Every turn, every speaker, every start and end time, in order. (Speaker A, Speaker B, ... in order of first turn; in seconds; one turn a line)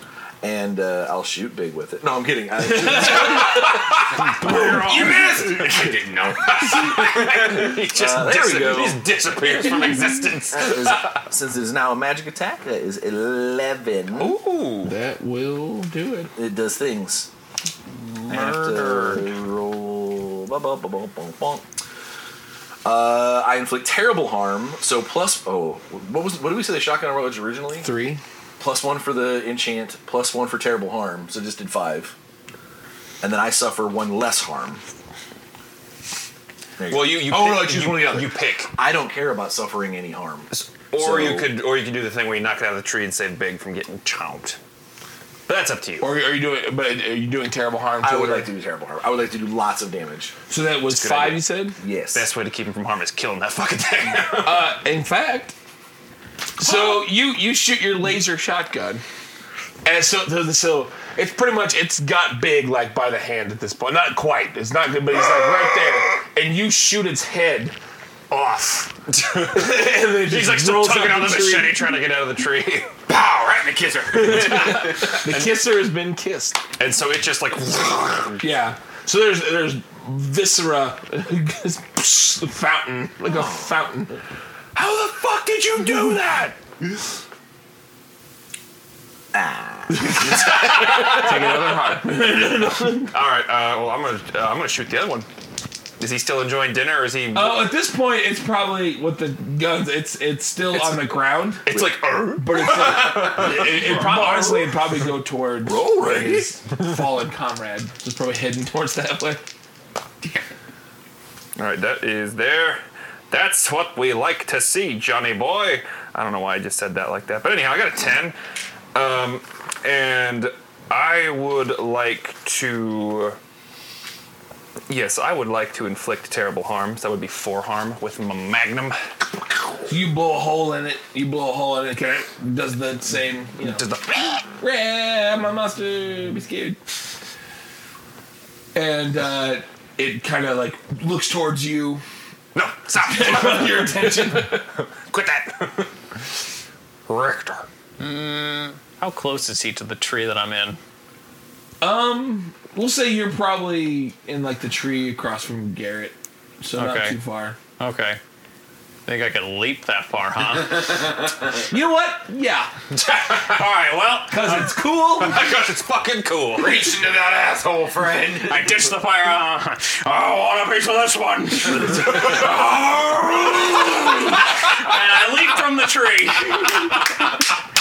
Speaker A: 0.4-4.6
Speaker B: 2.6-5.2
Speaker C: 4.4-7.6
Speaker D: 6.6-11.1
Speaker A: 7.6-9.0
Speaker B: 8.2-8.8
Speaker A: 10.5-14.4
Speaker D: 14.2-14.9
Speaker B: 14.8-16.3
Speaker A: 16.3-17.3
Speaker A: 18.2-21.6
Speaker E: 18.3-18.8
Speaker A: 22.8-27.9
Speaker B: 27.8-28.2
Speaker A: 28.6-32.1
Speaker A: 33.2-34.8
Speaker A: 36.8-41.5
Speaker D: 36.9-38.7
Speaker D: 40.5-44.6
Speaker D: 45.5-46.1
Speaker B: 46.0-48.5
Speaker A: 48.0-50.3
Speaker B: 50.5-51.8
Speaker D: 50.9-51.5
Speaker A: 51.8-52.3
Speaker D: 52.1-54.7
Speaker B: 54.4-55.5
Speaker B: 56.6-59.0
Speaker B: 59.8-67.7
Speaker D: 68.3-72.9
Speaker B: 69.5-71.8
Speaker C: 73.1-75.2
Speaker D: 74.3-74.7
Speaker B: 74.3-76.6
Speaker D: 75.3-75.7
Speaker D: 76.8-78.4
Speaker B: 78.4-84.2
Speaker A: 83.2-83.9
Speaker B: 84.8-86.6
Speaker A: 89.3-92.0
Speaker B: 90.0-93.1
Speaker D: 93.1-95.3
Speaker D: 96.0-97.7
Speaker B: 97.3-101.7
Speaker D: 101.7-104.2
Speaker A: 101.7-104.7
Speaker B: 102.4-109.4
Speaker A: 105.6-106.6
Speaker D: 111.6-118.3
Speaker D: 118.9-123.4
Speaker D: 124.9-129.0
Speaker B: 129.9-133.8
Speaker D: 133.6-134.4
Speaker B: 134.6-136.8
Speaker B: 138.7-142.0
Speaker D: 142.5-145.9
Speaker B: 143.0-144.7
Speaker D: 147.1-147.7
Speaker E: 148.0-150.8
Speaker B: 151.8-157.6
Speaker E: 156.7-157.2
Speaker E: 157.8-158.2
Speaker E: 159.1-161.1
Speaker B: 161.7-162.7
Speaker D: 162.9-163.7
Speaker E: 163.3-164.4
Speaker B: 164.3-165.4
Speaker D: 164.4-166.9
Speaker C: 166.6-168.7
Speaker E: 168.4-172.5
Speaker D: 172.1-174.2
Speaker E: 173.8-177.1